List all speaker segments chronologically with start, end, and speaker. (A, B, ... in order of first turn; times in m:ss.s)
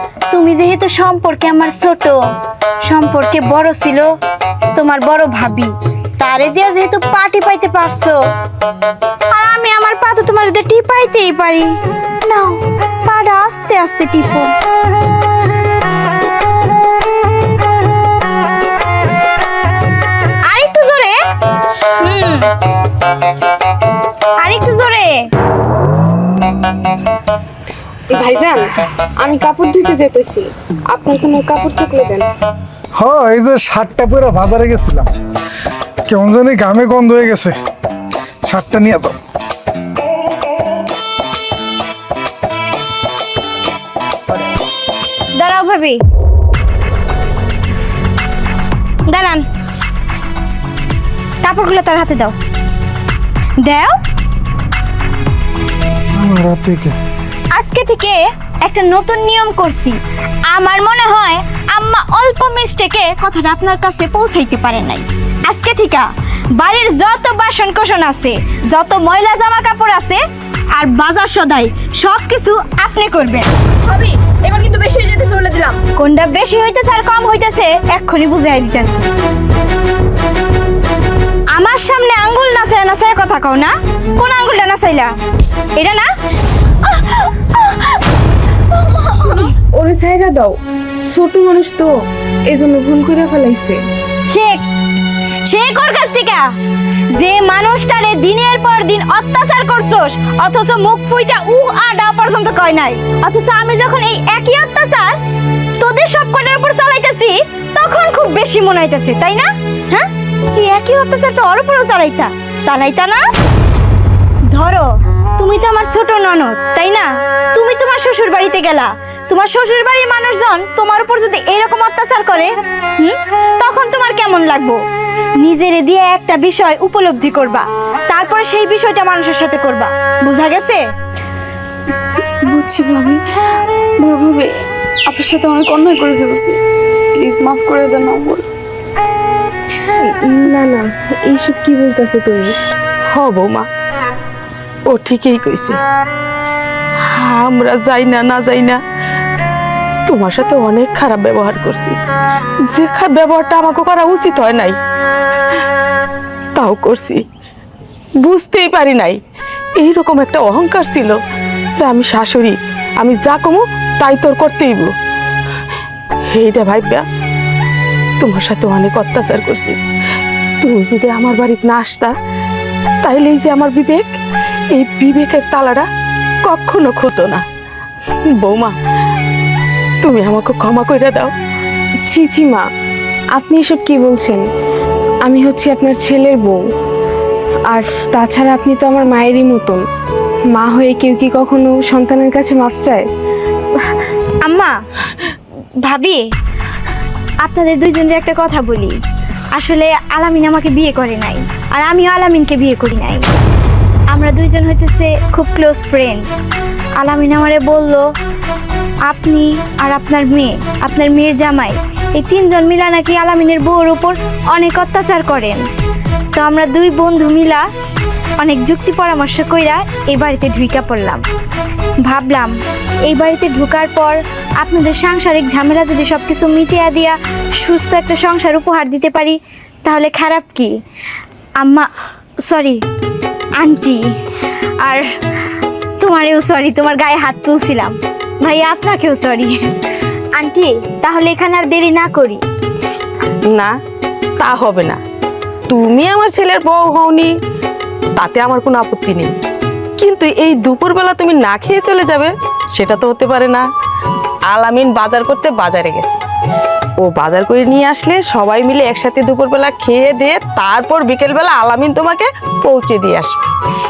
0:00.3-0:02.2 A
0:02.8-0:04.1 A
0:04.8-0:08.2 A
0:09.3-0:14.5 A
0:20.4-0:21.2 A
0:22.0-0:22.5 A
0:24.4-0:25.3 A
0:28.1-0:32.3 B
0:33.0-0:35.1 C
0:36.1-0:37.5 C
0:38.5-0:39.2 C
0:45.4-0:46.0 A
0:49.1-0:49.4 A
0:51.4-0:52.4 A
0:53.6-0:54.0 A
0:56.2-0:57.0 C
0:57.5-1:00.0 A
1:00.5-1:10.2 A
1:10.8-1:13.5 A
1:13.9-1:15.8 D
1:16.0-1:19.1 A
1:21.5-1:25.1 A
1:25.8-1:26.1 A
1:28.9-1:29.4 A
1:29.2-1:30.6 B
1:31.1-1:32.0 B
1:32.5-1:33.8 B
1:34.3-1:34.6 A
1:35.5-1:36.5 A
1:37.1-1:45.2 A
1:45.8-1:53.2 A
1:54.5-2:04.8 A
2:05.4-2:10.8 A
2:12.5-2:13.0 A
2:15.2-2:15.5 A
2:15.5-2:16.0 D
2:17.2-2:18.3 D
2:20.0-2:22.6 B
2:23.1-2:23.7 E
2:24.9-2:25.8 E
2:27.1-2:28.8 E
2:30.1-2:32.0 E
2:32.7-2:34.8 E
2:36.6-2:37.2 E
2:38.2-2:39.2 E
2:39.8-2:41.2 E
2:41.8-2:44.9 E
2:46.3-2:47.0 E
2:48.2-2:49.8 E
2:50.6-2:52.1 E
2:53.0-2:54.2 E
2:54.7-2:55.9 E
2:56.4-2:57.4 E
2:58.4-2:58.7 E
3:00.0-3:01.3 E
3:02.1-3:02.6 B
3:03.4-3:04.4 B
3:05.2-3:06.6 B
3:07.7-3:09.8 B
3:10.5-3:13.1 B
3:13.8-3:14.7 A
3:15.8-3:16.2 A
3:17.4-3:19.0 A
3:19.5-3:23.3 A
3:24.1-3:26.3 A
3:27.0-3:28.0 A
3:29.1-3:35.6 A
3:36.3-3:37.6 A
3:38.4-3:41.2 A
3:42.0-3:42.5 A
3:43.1-3:50.7 A
3:51.6-3:51.9 A
3:52.5-3:52.8 A
3:53.6-3:54.0 A
3:54.8-3:55.1 A
3:56.0-3:59.7 A
4:00.3-4:02.4 A
4:04.4-4:05.0 E
4:05.7-4:07.3 E
4:08.2-4:09.3 E
4:10.0-4:13.7 E
4:14.5-4:16.2 E
4:17.0-4:23.5 E